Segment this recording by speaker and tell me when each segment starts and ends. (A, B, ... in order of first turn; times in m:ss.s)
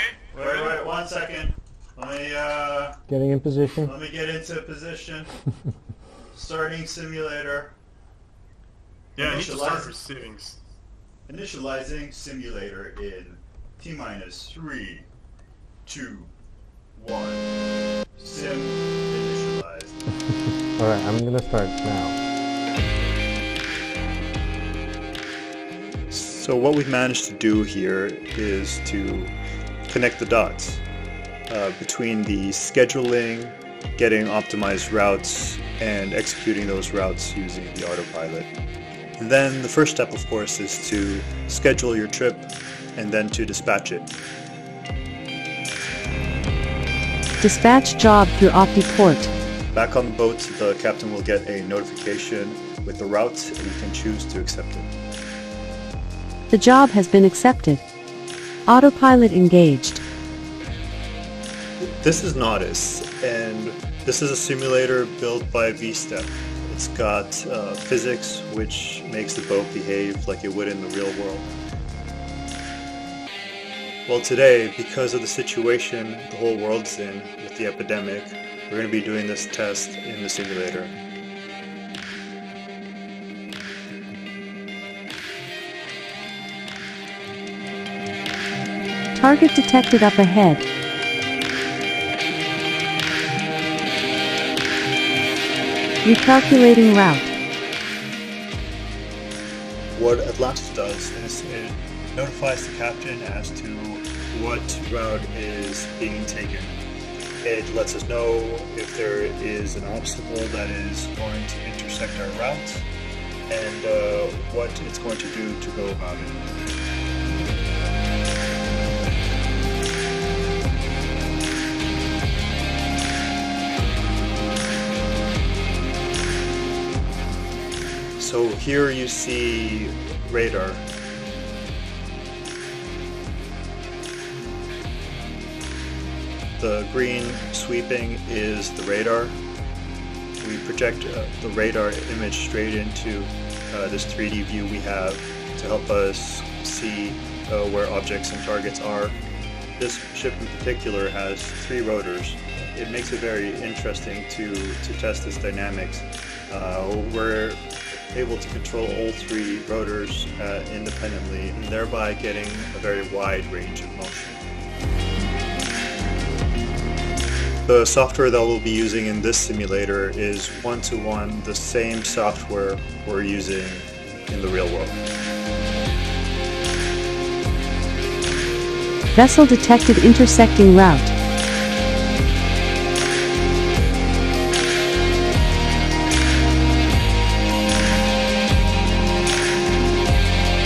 0:00.2-0:00.8 A
0:00.4-0:03.0 B
0:03.1-0:03.8 C
0:03.8-0:05.3 B
0:06.3-0:07.7 B
0:09.2-0:10.6 A
0:09.2-0:09.9 B
0:11.3-0:15.1 B
0:15.8-0:16.3 B
0:17.0-0:17.5 B
0:18.2-0:20.0 B
0:20.8-0:22.2 C
0:26.1-0:29.3 B
0:29.9-0:30.8 B
0:31.5-0:38.5 B
0:39.2-0:44.1 B
0:47.4-0:49.3 D
0:49.7-0:54.9 B
0:56.5-0:57.8 D
0:58.7-1:00.0 D
1:01.8-1:11.5 B
1:14.1-1:21.0 B
1:29.2-1:30.6 D
1:36.0-1:37.3 D
1:39.9-1:46.8 B
1:47.4-1:52.9 B
1:53.5-1:56.4 B
2:08.2-2:10.8 B
2:16.6-2:19.4 B
2:20.4-2:29.2 B
2:29.8-2:44.4 B
2:47.6-2:55.0 B
2:59.1-3:01.1 D